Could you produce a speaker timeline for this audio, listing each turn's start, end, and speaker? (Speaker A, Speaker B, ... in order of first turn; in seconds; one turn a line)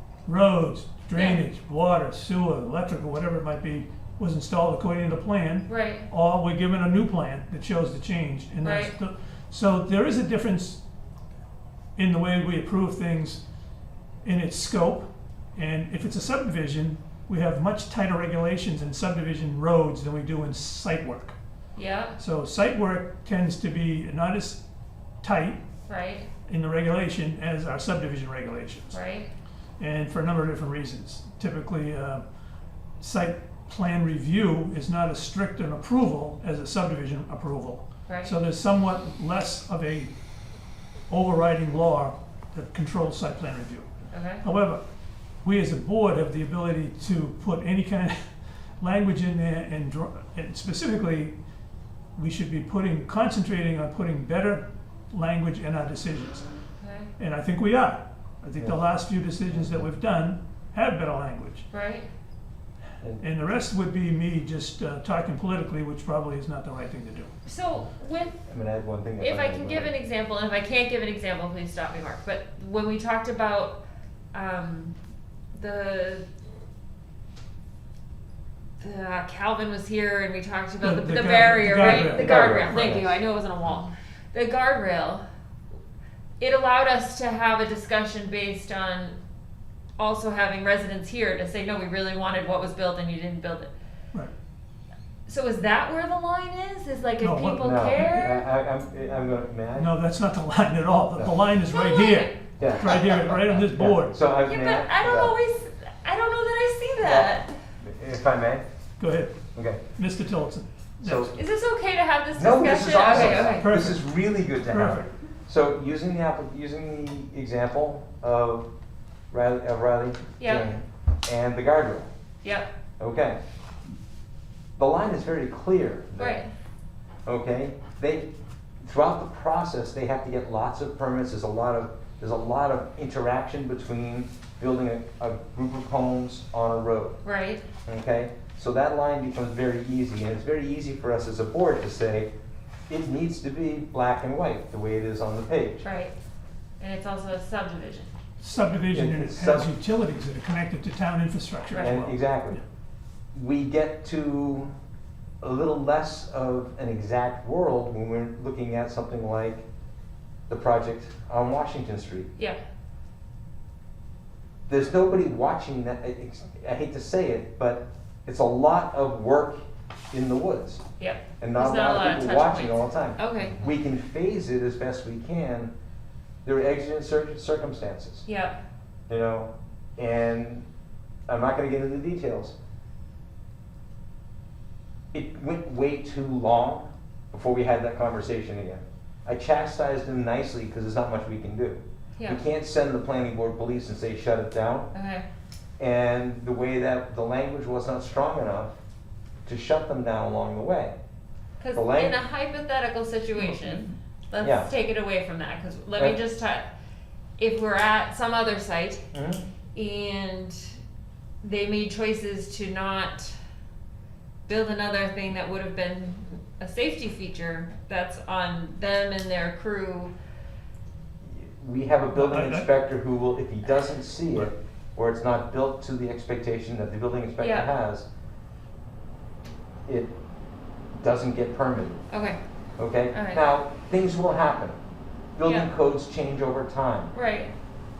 Speaker A: 0.2-10.8
Speaker B: 1.1-1.4
Speaker B: 5.7-6.1
Speaker B: 8.6-8.9
Speaker A: 11.9-13.4
Speaker A: 14.2-21.3
Speaker B: 21.8-22.2
Speaker A: 22.2-24.6
Speaker A: 25.2-25.6
Speaker B: 25.9-26.3
Speaker A: 26.4-29.0
Speaker B: 28.9-29.3
Speaker A: 29.8-32.2
Speaker A: 33.0-40.1
Speaker B: 38.1-38.4
Speaker A: 41.1-43.9
Speaker B: 44.1-44.4
Speaker A: 44.4-44.8
Speaker A: 45.4-48.3
Speaker A: 48.8-51.3
Speaker A: 52.1-56.5
Speaker B: 56.8-57.1
Speaker A: 57.2-61.6
Speaker C: 59.5-59.8
Speaker B: 61.7-62.1
Speaker A: 63.2-67.3
Speaker B: 67.5-68.4
Speaker C: 68.5-69.9
Speaker B: 69.2-73.8
Speaker B: 74.3-75.0
Speaker B: 75.5-76.2
Speaker B: 78.8-85.2
Speaker A: 80.8-82.9
Speaker C: 81.8-83.2
Speaker B: 86.4-89.2
Speaker B: 90.0-93.7
Speaker B: 95.3-98.5
Speaker A: 97.2-98.2
Speaker C: 97.6-99.9
Speaker A: 99.8-104.2
Speaker B: 101.7-102.4
Speaker C: 102.6-105.3
Speaker B: 104.4-107.5
Speaker C: 107.0-108.6
Speaker A: 109.0-109.3
Speaker C: 109.5-109.8
Speaker A: 109.9-111.3
Speaker C: 111.0-111.3
Speaker B: 111.3-113.7
Speaker C: 112.3-118.7
Speaker A: 113.0-114.0
Speaker A: 114.6-115.1
Speaker C: 119.3-122.1
Speaker B: 120.4-120.7
Speaker B: 122.4-122.7
Speaker C: 123.0-123.4
Speaker C: 124.8-126.4
Speaker B: 126.2-126.5
Speaker C: 127.2-128.3
Speaker C: 128.8-137.2
Speaker B: 137.2-137.6
Speaker C: 137.8-142.3
Speaker C: 142.9-145.8
Speaker B: 145.8-146.1
Speaker B: 146.8-148.1
Speaker A: 148.4-152.6
Speaker C: 148.9-149.7
Speaker B: 151.7-152.0
Speaker C: 151.8-152.6
Speaker C: 153.3-154.7
Speaker C: 155.4-159.6
Speaker C: 160.5-162.3
Speaker C: 164.7-169.6
Speaker C: 170.1-170.8
Speaker B: 171.0-173.7
Speaker C: 171.4-175.7
Speaker C: 176.4-178.2
Speaker B: 178.2-178.6
Speaker C: 179.1-180.7
Speaker C: 181.3-182.5
Speaker C: 185.1-194.9
Speaker B: 194.9-195.2
Speaker C: 195.8-198.7
Speaker C: 199.4-200.9
Speaker B: 201.6-206.6
Speaker C: 201.7-202.2
Speaker C: 204.4-204.7
Speaker B: 207.4-209.0
Speaker C: 209.1-209.5
Speaker B: 209.7-210.8
Speaker B: 211.4-213.3
Speaker B: 214.5-220.1
Speaker C: 221.2-228.1
Speaker A: 222.1-222.7
Speaker B: 227.4-227.7
Speaker C: 229.8-230.1
Speaker C: 231.0-232.0
Speaker B: 232.1-232.4
Speaker C: 232.8-234.8
Speaker B: 233.1-233.4
Speaker C: 235.3-237.1
Speaker B: 235.4-235.7
Speaker B: 237.1-237.5